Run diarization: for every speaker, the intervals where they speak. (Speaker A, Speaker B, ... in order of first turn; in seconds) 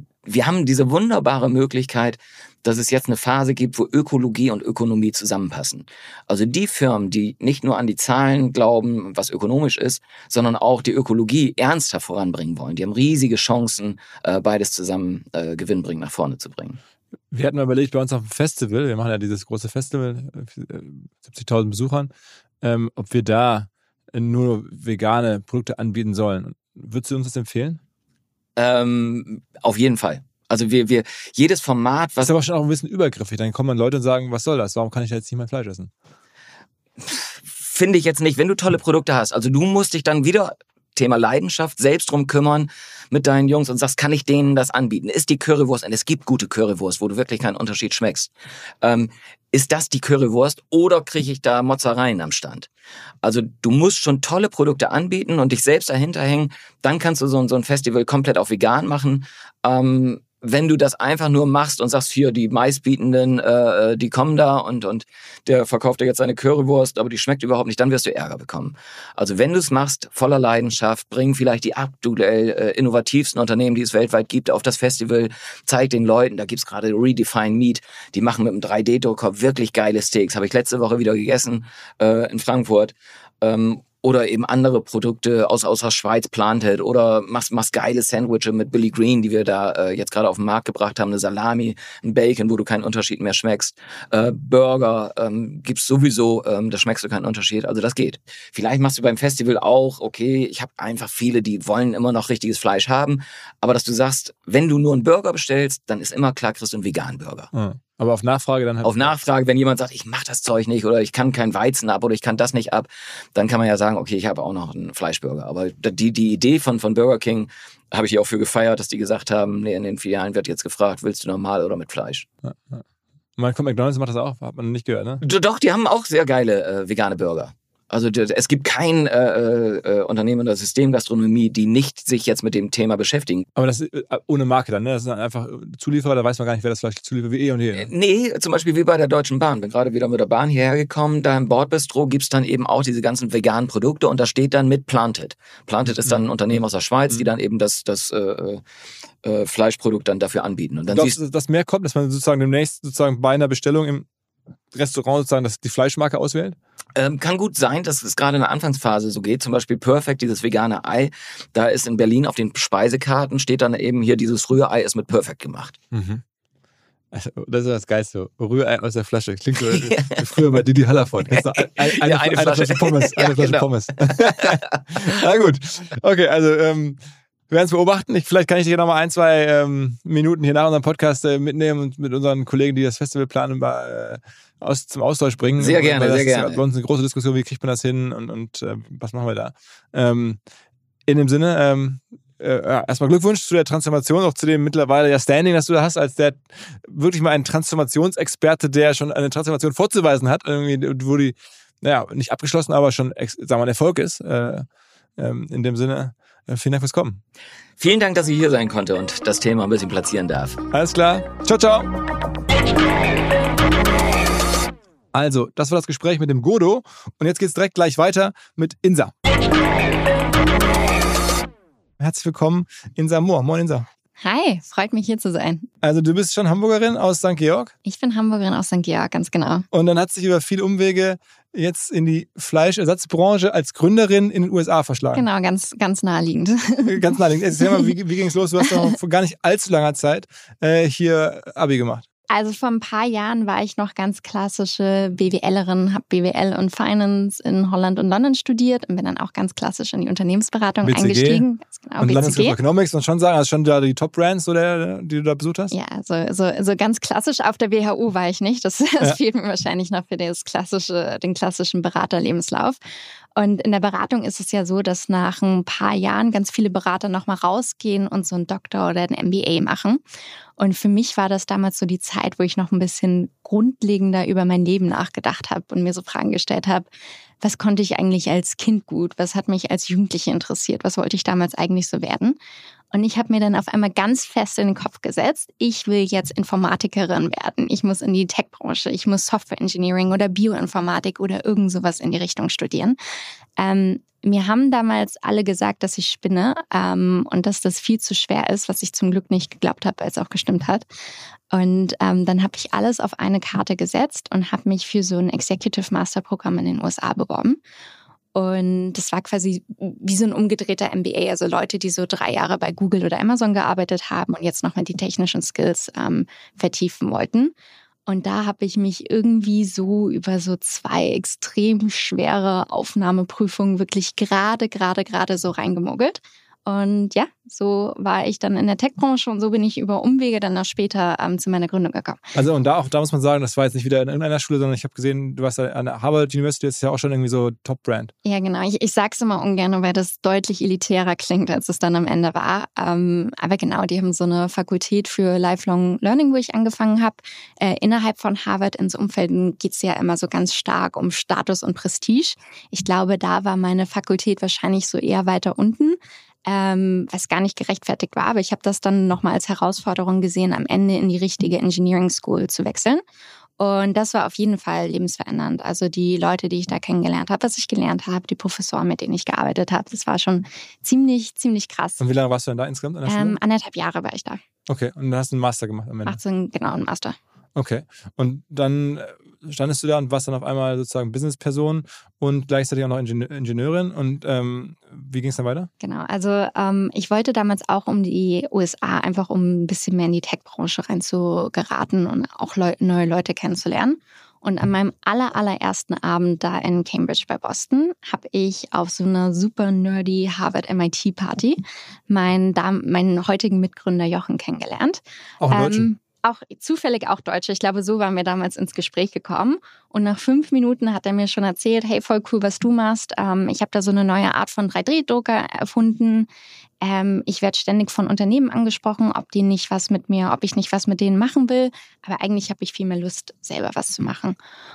Speaker A: 0.3-16.8, 28.6-32.3, 37.0-48.3, 48.8-52.7, 53.2-107.5, 108.8-122.3, 125.2-133.5, 137.8-148.6, 149.2-151.2, 156.9-165.8, 169.7-170.6, 171.2-175.1, 185.6-186.6, 207.8-210.6
Speaker B: 17.3-22.1, 22.6-27.8, 32.2-35.9, 107.5-109.2, 122.4-122.8, 123.4-125.2, 133.6-137.9, 150.9-154.1, 154.7-156.6, 165.9-166.2, 167.1-190.4, 191.1-207.2, 210.7-211.9, 215.1-219.1, 222.0-223.9, 225.8-227.7, 229.7-235.2, 236.9-242.0, 250.8-251.4, 252.0-255.8, 332.4-338.1, 372.0-373.4, 374.7-376.2, 377.6-385.7, 405.4-405.9
Speaker C: 224.2-225.7, 227.9-229.7, 235.1-237.8, 242.3-252.6, 255.7-262.8, 263.4-270.0, 270.6-276.9, 277.4-282.4, 282.9-293.0, 293.6-300.9, 301.5-307.6, 308.4-317.5, 318.1-332.2, 338.2-363.0, 363.6-372.0, 373.1-374.4, 376.1-377.2, 385.8-416.3, 416.8-424.4